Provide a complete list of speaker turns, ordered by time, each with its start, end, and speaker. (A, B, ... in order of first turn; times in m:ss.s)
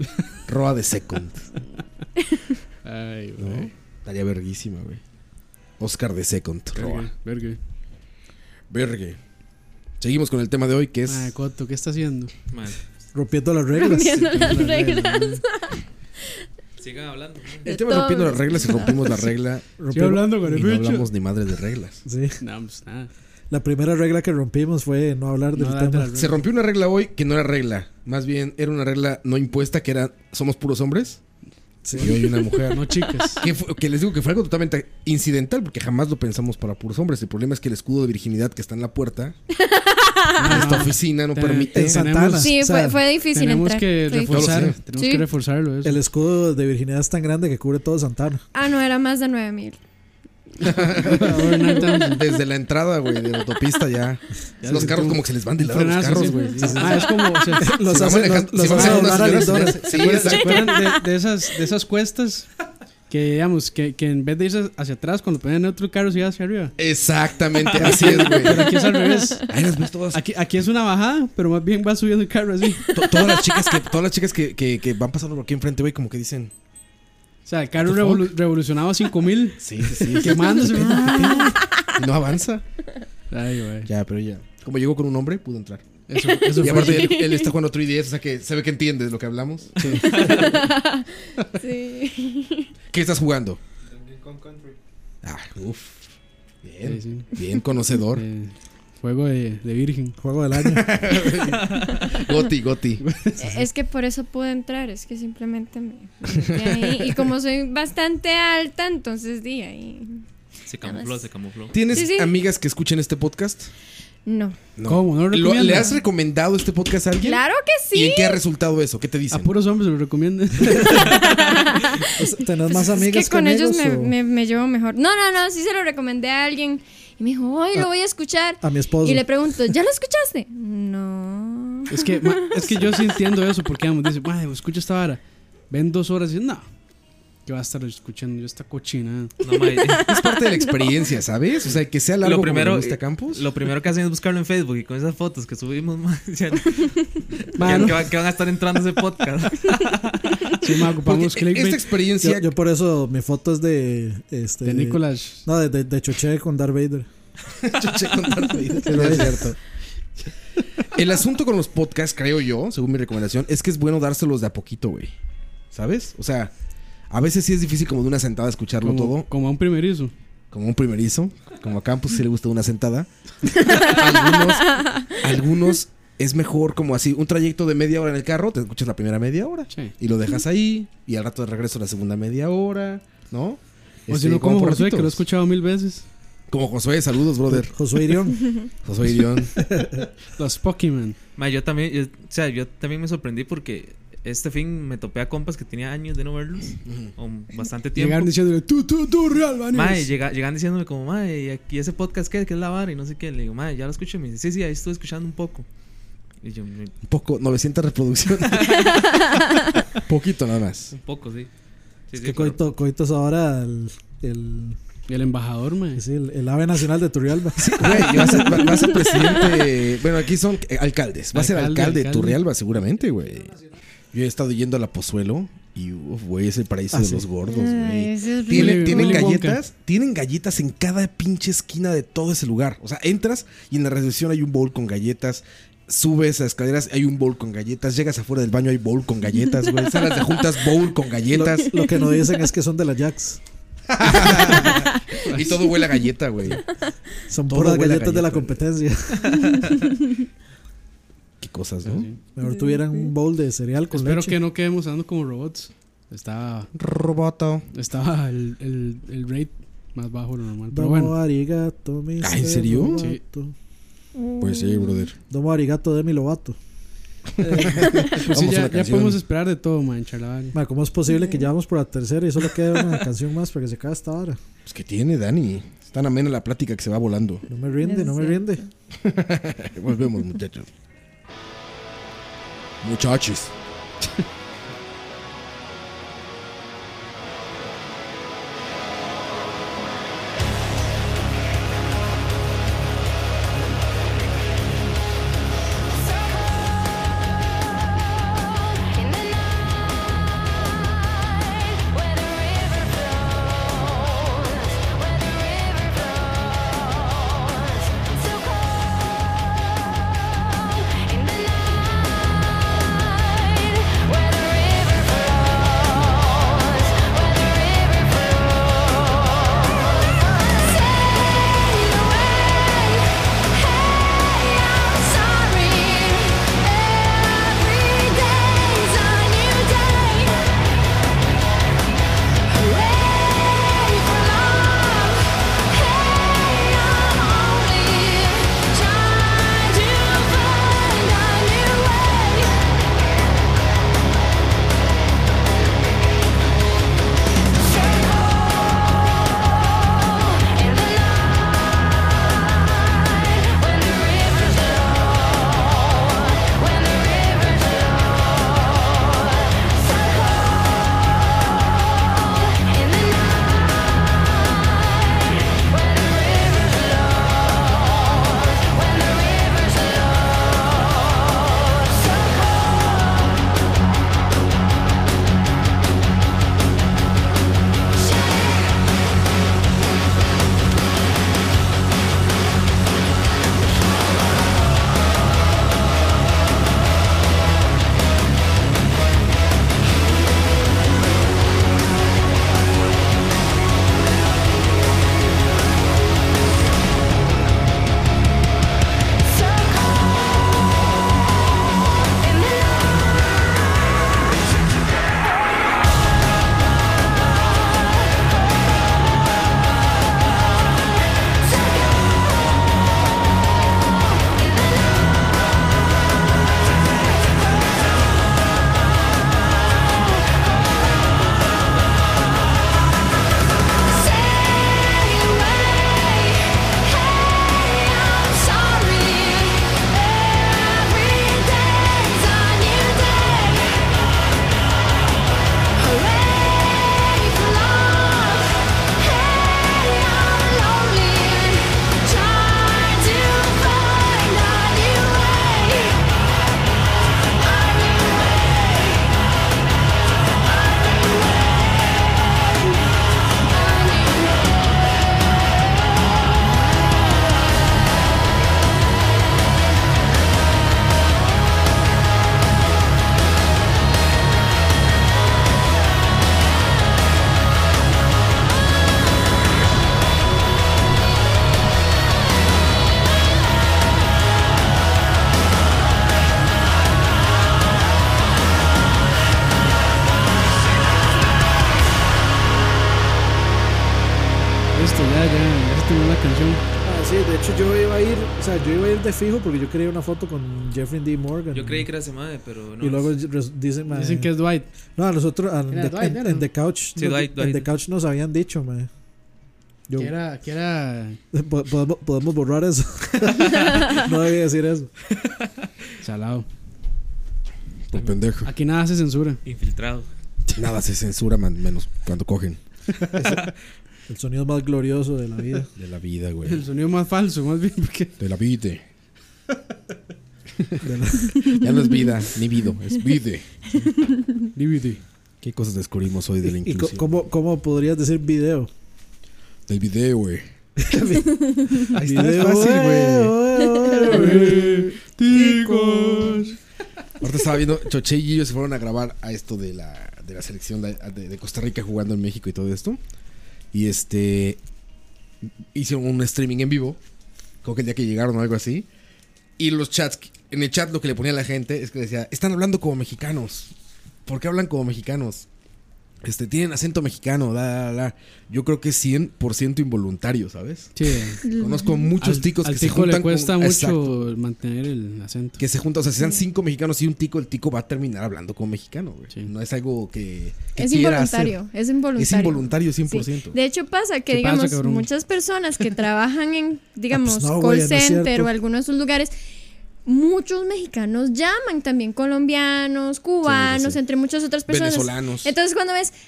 0:00.5-0:01.5 A
0:02.8-0:03.7 B
0:03.4-0:05.0 A
0:05.8-0:07.1 A
0:06.7-0:07.6 B
0:08.7-0:09.2 A
0:10.0-0:11.3 A
0:11.1-0:12.3 B
0:12.5-0:12.8 C
0:13.1-0:14.4 D
0:13.7-0:15.8 E
0:14.2-0:15.4 B
0:16.8-0:17.6 C
0:17.6-0:19.7 A
0:17.6-0:19.2 E
0:19.8-0:20.6 D
0:19.9-0:21.1 B
0:20.4-0:22.0 A
0:22.0-0:22.4 D
0:22.4-0:23.1 B
0:23.5-0:26.1 D
0:25.5-0:26.4 B
0:26.1-0:31.2 A
0:31.8-0:32.1 D
0:32.0-0:33.5 B
0:32.0-0:39.3 A
0:39.6-0:40.4 E
0:40.4-0:46.0 B
0:40.4-0:42.1 A
0:41.7-0:43.0 D
0:42.4-0:45.2 E
0:44.3-0:44.8 A
0:45.8-0:48.4 D
0:48.5-0:49.8 E
0:50.6-0:57.1 A
0:51.0-0:52.2 B
0:54.6-0:57.8 B
0:56.4-1:00.0 D
0:57.6-1:00.8 A
0:58.6-1:02.5 B
1:00.3-1:01.0 E
1:03.1-1:06.7 B
1:06.8-1:08.7 A
1:07.7-1:09.5 B
1:08.8-1:09.4 E
1:09.5-1:10.2 A
1:10.1-1:13.0 B
1:12.9-1:16.5 A
1:17.4-1:21.6 B
1:17.8-1:18.3 A
1:19.6-1:22.6 A
1:20.9-1:21.8 E
1:23.3-1:23.9 B
1:23.8-1:25.8 A
1:26.1-1:27.2 B
1:26.5-1:30.1 A
1:26.8-1:27.5 E
1:29.8-1:30.7 B
1:30.0-1:32.7 E
1:32.9-1:33.6 A
1:35.2-1:38.2 A
1:36.8-1:37.4 B
1:38.1-1:40.2 B
1:40.2-1:40.9 D
1:40.6-1:43.0 A
1:43.0-1:43.6 B
1:43.4-1:50.2 E
1:46.6-1:47.2 A
1:50.7-1:51.8 C
1:50.8-1:51.2 E
1:51.7-1:53.7 A
1:51.9-1:52.3 E
1:54.2-1:54.6 E
1:54.8-1:59.5 A
1:54.8-1:55.9 B
1:57.2-1:58.4 E
1:59.3-2:01.4 B
2:00.9-2:02.1 E
2:02.2-2:04.1 D
2:02.7-2:12.5 E
2:08.6-2:09.2 D
2:11.9-2:16.6 B
2:12.7-2:13.0 A
2:17.4-2:19.3 B
2:19.4-2:20.0 C
2:20.0-2:20.7 E
2:20.0-2:23.4 A
2:22.2-2:30.4 C
2:27.6-2:28.1 B
2:30.6-2:31.8 B
2:31.0-2:32.5 A
2:32.2-2:37.1 D
2:34.6-2:35.4 B
2:37.6-2:39.6 A
2:38.8-2:39.4 D
2:40.9-2:45.1 A
2:45.7-2:46.5 A
2:47.1-2:49.3 A
2:48.8-2:50.1 B
2:50.5-3:05.2 A
3:04.1-3:06.0 B
3:06.5-3:07.7 A
3:07.5-3:08.7 D
3:08.8-3:09.5 A
3:09.6-3:10.1 D
3:10.4-3:11.2 B
3:11.4-3:18.3 C
3:16.8-3:17.1 A
3:17.9-3:20.1 B
3:19.7-3:25.6 C
3:26.4-3:26.9 C
3:27.0-3:29.2 A
3:30.0-3:30.9 A
3:30.9-3:31.5 C
3:32.1-3:32.6 C
3:32.2-3:34.8 D
3:35.1-3:36.0 B
3:36.0-3:38.9 D
3:37.6-3:43.6 A
3:41.3-3:42.4 B
3:44.1-4:01.8 A
3:46.9-3:47.2 D
3:47.5-3:49.2 E
3:48.5-3:49.6 B
4:01.3-4:03.4 D
4:03.9-4:06.6 A
4:07.3-4:09.6 D
4:07.5-4:08.6 A
4:11.4-4:12.1 A
4:11.8-4:12.2 B
4:12.3-4:14.4 D
4:12.4-4:13.1 E
4:13.9-4:16.7 B
4:16.7-4:17.6 A
4:17.7-4:21.2 B
4:20.7-4:23.5 D
4:22.2-4:23.0 A
4:24.2-4:25.1 E
4:24.4-4:25.2 A
4:25.3-4:26.6 D
4:27.4-4:28.1 D
4:27.6-4:29.2 A
4:28.0-4:30.6 B
4:30.5-4:34.4 D
4:31.1-4:31.4 E
4:34.6-4:37.4 A
4:37.5-4:38.6 D
4:37.8-4:38.7 E
4:39.0-4:40.7 A
4:42.8-4:43.5 A
8:04.7-8:06.6 B
8:06.8-8:11.8 D
8:11.5-8:13.1 C
8:12.8-8:14.3 D
8:13.9-8:14.7 B
8:14.9-8:18.9 D
8:15.7-8:16.5 B
8:17.0-8:17.7 C
8:19.9-8:20.2 D
8:20.0-8:21.2 B
8:21.3-8:24.9 D
8:26.0-8:26.4 B
8:27.9-8:28.5 A
8:28.4-8:29.4 B
8:29.4-8:30.1 C
8:30.5-8:32.6 A
8:33.2-8:33.5 D
8:34.1-8:35.7 D
8:35.8-8:36.6 A
8:36.4-8:38.2 B
8:38.2-8:38.8 A
8:40.8-8:41.6 D
8:41.4-8:43.5 A
8:44.5-8:45.0 B
8:45.4-8:47.2 A
8:46.5-8:48.7 D
8:49.7-8:50.5 A
8:50.8-8:54.9 D
8:51.9-8:53.4 A
8:54.0-8:56.5 B
8:57.2-9:03.0 A
9:03.7-9:04.6 A
9:05.7-9:07.0 A
9:07.6-9:08.9 A
9:09.6-9:13.7 A
9:14.2-9:15.4 A
9:16.2-9:24.3 A
9:21.0-9:21.4 B
9:21.4-9:22.1 E
9:22.2-9:25.6 B
9:25.6-9:31.6 A
9:30.8-9:39.3 E
9:32.2-9:33.6 A
9:34.3-9:35.1 B
9:37.1-9:38.5 D
9:40.0-9:46.1 E
9:43.4-9:44.0 A
9:44.7-9:45.5 A